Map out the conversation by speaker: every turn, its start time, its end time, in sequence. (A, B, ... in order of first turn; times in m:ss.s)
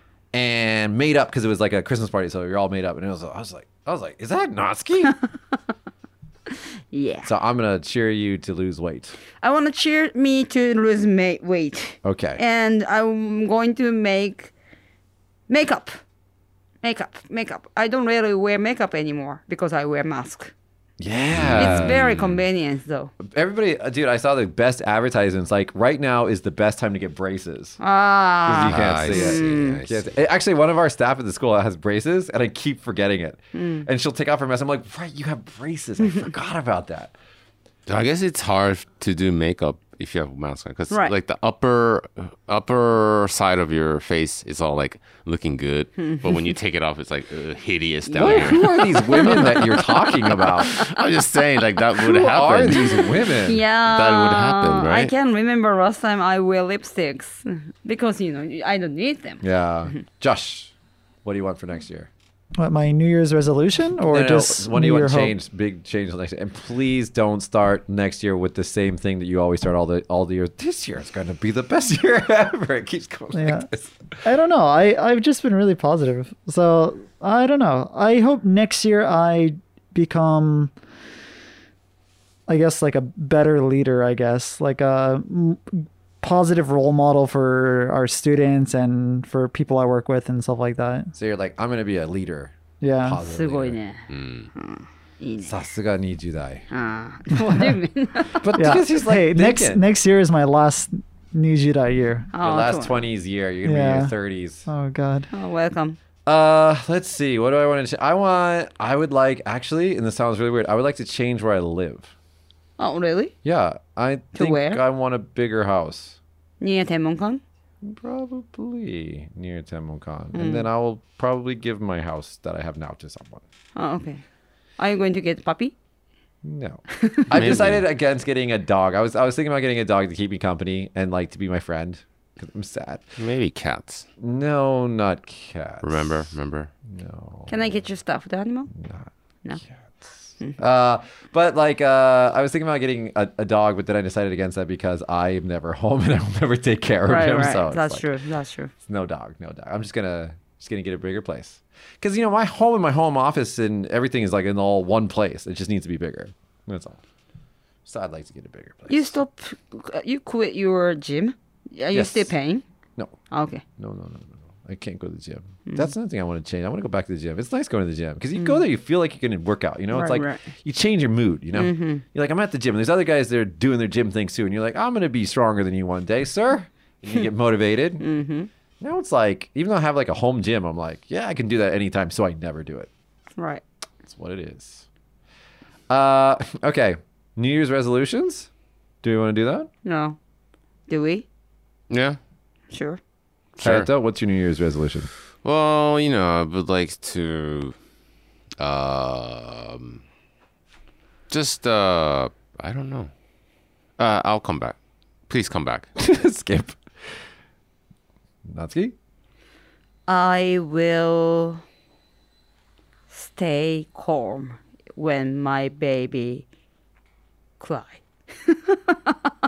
0:00.3-0:05.2 A
0:06.9-0:07.3 B
0:07.2-0:09.1 A
0:09.4-0:14.5 B
0:12.0-0:12.4 A
0:15.5-0:16.0 B
0:16.8-0:20.5 B
0:21.0-0:22.0 A
0:21.3-0:22.4 C
0:21.6-0:23.1 B
0:23.2-0:27.8 A
0:27.8-0:29.8 B
0:28.4-0:37.1 A
0:28.6-0:30.1 C
0:33.5-0:33.9 B
0:37.9-0:53.1 C
0:46.0-0:46.5 B
0:48.1-0:50.9 B
0:48.2-0:50.8 A
0:52.0-0:53.6 A
0:52.7-0:59.4 B
0:53.8-0:55.1 C
0:59.4-1:00.7 A
1:01.2-1:02.1 A
1:02.6-1:05.4 D
1:04.1-1:14.2 A
1:13.3-1:13.7 D
1:14.2-1:20.7 D
1:22.5-1:31.1 D
1:31.1-1:33.8 A
1:32.8-1:33.2 D
1:33.2-1:35.6 B
1:34.1-1:34.5 C
1:35.4-1:36.6 A
1:36.7-1:38.4 B
1:38.4-1:39.8 A
1:38.6-1:42.3 D
1:42.3-1:43.0 B
1:42.4-1:44.7 A
1:43.6-1:44.1 D
1:44.7-1:45.3 D
1:45.3-1:46.0 B
1:46.2-1:52.1 A
1:52.8-1:53.3 B
1:53.4-1:56.2 A
1:54.3-1:54.8 B
1:56.6-1:57.4 B
1:57.8-2:03.4 A
2:00.3-2:00.7 B
2:03.8-2:04.2 B
2:04.8-2:05.7 B
2:06.4-2:13.1 A
2:07.0-2:07.7 B
2:07.3-2:07.8 C
2:13.2-2:14.0 C
2:14.2-2:16.3 A
2:15.8-2:16.7 C
2:16.9-2:17.8 A
2:17.5-2:18.7 B
2:18.7-2:28.1 A
2:27.1-2:28.7 B
2:28.8-2:37.0 A
2:37.8-2:39.2 A
2:38.9-2:42.6 B
2:41.9-2:42.3 A
2:43.3-2:43.6 B
2:43.8-2:58.0 A
2:48.4-2:48.6 B
2:49.9-2:50.5 B
2:51.5-2:52.0 B
2:58.0-2:58.5 B
2:58.8-3:02.9 A
3:03.4-3:03.6 B
3:04.0-3:04.8 A
3:05.9-3:08.5 A
3:09.0-3:09.7 A
3:09.8-3:10.2 B
3:10.9-3:11.2 B
3:11.9-3:12.2 C
3:12.7-3:13.0 B
3:13.6-3:13.9 C
3:13.6-3:15.1 A
3:15.4-3:17.8 C
3:18.6-3:20.0 C
3:21.3-3:23.1 C
3:24.0-3:24.8 C
3:25.3-3:25.9 C
3:26.0-3:26.8 A
3:28.5-3:28.9 A
3:30.1-3:31.6 B
3:33.1-3:36.4 B
3:37.6-3:39.3 B